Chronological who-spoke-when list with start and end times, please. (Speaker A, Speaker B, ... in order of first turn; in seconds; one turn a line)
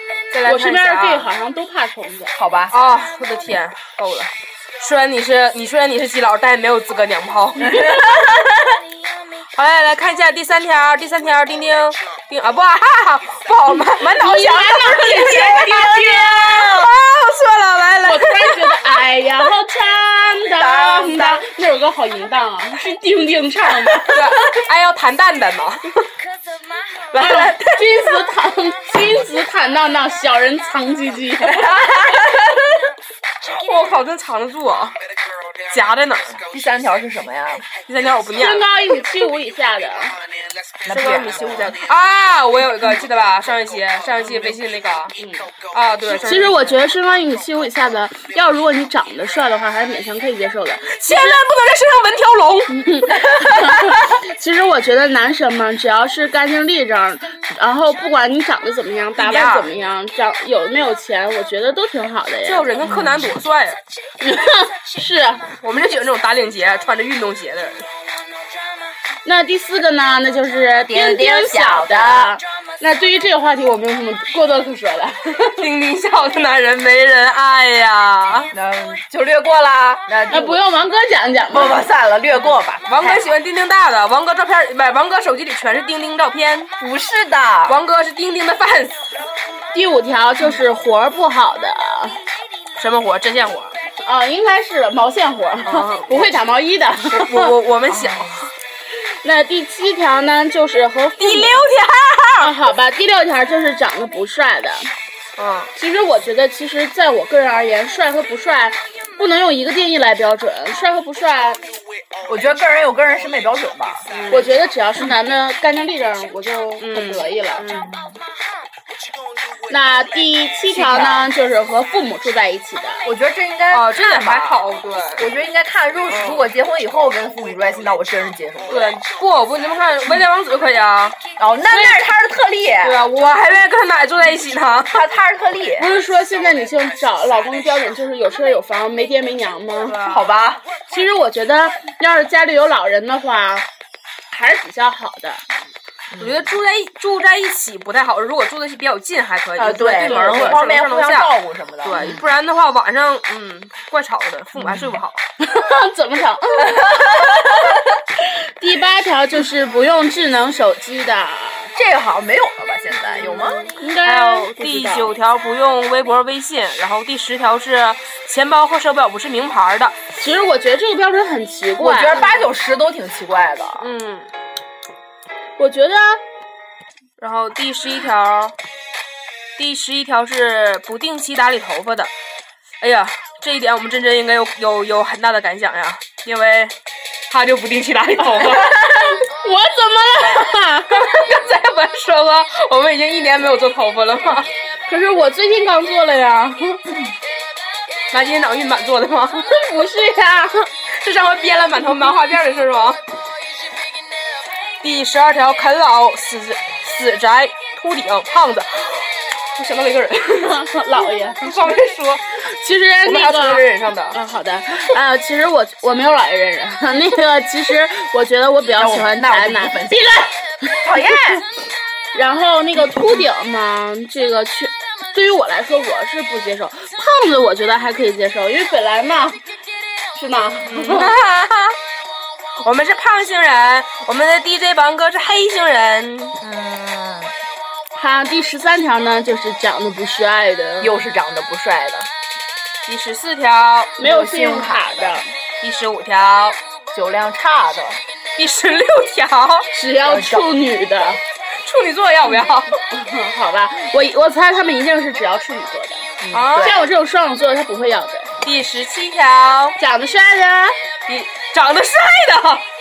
Speaker A: 0.3-1.3
Speaker B: 0.4-2.3
Speaker C: 2.4-2.7
Speaker A: 2.7-8.1
Speaker C: 7.6-8.6
Speaker A: 9.5-18.8
Speaker B: 14.0-16.7
Speaker C: 15.2-16.8
Speaker B: 18.0-24.2
Speaker C: 20.6-21.4
Speaker A: 24.1-26.1
Speaker A: 27.1-28.2
Speaker B: 27.2-31.8
Speaker C: 31.4-32.5
Speaker A: 33.5-35.0
Speaker A: 35.7-36.4
Speaker C: 36.5-37.6
Speaker A: 37.8-38.7
Speaker B: 38.4-40.1
Speaker C: 40.8-41.8
Speaker A: 40.9-46.8
Speaker B: 46.1-51.4
Speaker A: 51.0-52.9
Speaker B: 52.7-62.7
Speaker A: 59.1-59.7
Speaker A: 62.4-63.8
Speaker C: 62.9-63.2
Speaker B: 64.2-65.5
Speaker A: 65.6-67.9
Speaker B: 69.2-75.6
Speaker C: 70.9-72.4
Speaker A: 75.4-78.5
Speaker C: 78.5-80.6
Speaker B: 80.3-81.8
Speaker C: 81.5-83.3
Speaker A: 82.8-86.7
Speaker C: 86.8-87.8
Speaker A: 87.7-89.0
Speaker B: 89.7-92.2
Speaker A: 92.8-93.8
Speaker B: 94.0-97.5
Speaker A: 95.6-96.4
Speaker A: 97.1-98.5
Speaker C: 97.9-98.3
Speaker B: 99.2-101.6
Speaker A: 101.2-102.5
Speaker B: 102.4-104.9
Speaker A: 105.4-105.7
Speaker B: 105.8-111.6
Speaker C: 112.2-114.2
Speaker A: 114.1-114.5
Speaker B: 114.3-117.7
Speaker A: 116.8-117.9
Speaker C: 117.7-118.2
Speaker B: 119.7-123.0
Speaker C: 120.7-121.3
Speaker C: 123.0-124.6
Speaker A: 123.7-125.3
Speaker C: 125.2-129.0
Speaker A: 126.1-126.4
Speaker A: 128.7-131.2
Speaker C: 131.4-133.0
Speaker B: 131.7-132.0
Speaker A: 132.8-135.0
Speaker C: 134.9-135.9
Speaker B: 135.8-140.0
Speaker A: 139.8-140.3
Speaker C: 140.0-140.6
Speaker B: 140.9-143.6
Speaker B: 144.3-145.4
Speaker C: 146.1-146.5
Speaker A: 146.2-151.3
Speaker C: 149.6-152.2
Speaker B: 150.1-150.6
Speaker A: 151.8-155.2
Speaker C: 154.6-155.0
Speaker B: 155.4-157.2
Speaker C: 156.6-157.7
Speaker B: 158.4-161.7
Speaker C: 161.7-163.7
Speaker A: 163.1-170.0
Speaker B: 163.8-165.2
Speaker B: 170.2-172.3
Speaker C: 171.8-173.9
Speaker A: 173.8-174.3
Speaker B: 175.6-176.2
Speaker A: 177.2-178.5
Speaker A: 179.6-182.1
Speaker A: 182.8-186.7
Speaker A: 187.3-189.2
Speaker B: 188.6-191.0
Speaker A: 190.9-194.5
Speaker B: 194.9-196.8
Speaker A: 198.1-199.5
Speaker B: 199.4-200.7
Speaker A: 201.0-203.0
Speaker A: 204.8-212.2
Speaker B: 210.4-211.8
Speaker B: 212.4-221.4
Speaker A: 213.1-214.2
Speaker C: 218.8-220.0
Speaker C: 220.8-221.4
Speaker B: 222.1-229.4
Speaker B: 230.1-231.1
Speaker A: 230.7-231.8
Speaker A: 232.6-236.4
Speaker C: 236.4-237.3
Speaker B: 237.9-240.9
Speaker C: 240.8-242.1
Speaker A: 242.8-244.2
Speaker B: 244.0-245.3
Speaker C: 244.0-245.2
Speaker A: 245.6-246.6
Speaker C: 246.9-248.0
Speaker A: 248.3-249.7
Speaker B: 249.7-251.2
Speaker C: 250.0-250.5
Speaker A: 251.6-252.8
Speaker B: 252.9-256.0
Speaker C: 256.2-256.9
Speaker A: 256.3-256.8
Speaker B: 256.6-258.3
Speaker A: 258.4-259.8
Speaker B: 259.8-260.7
Speaker A: 261.1-262.6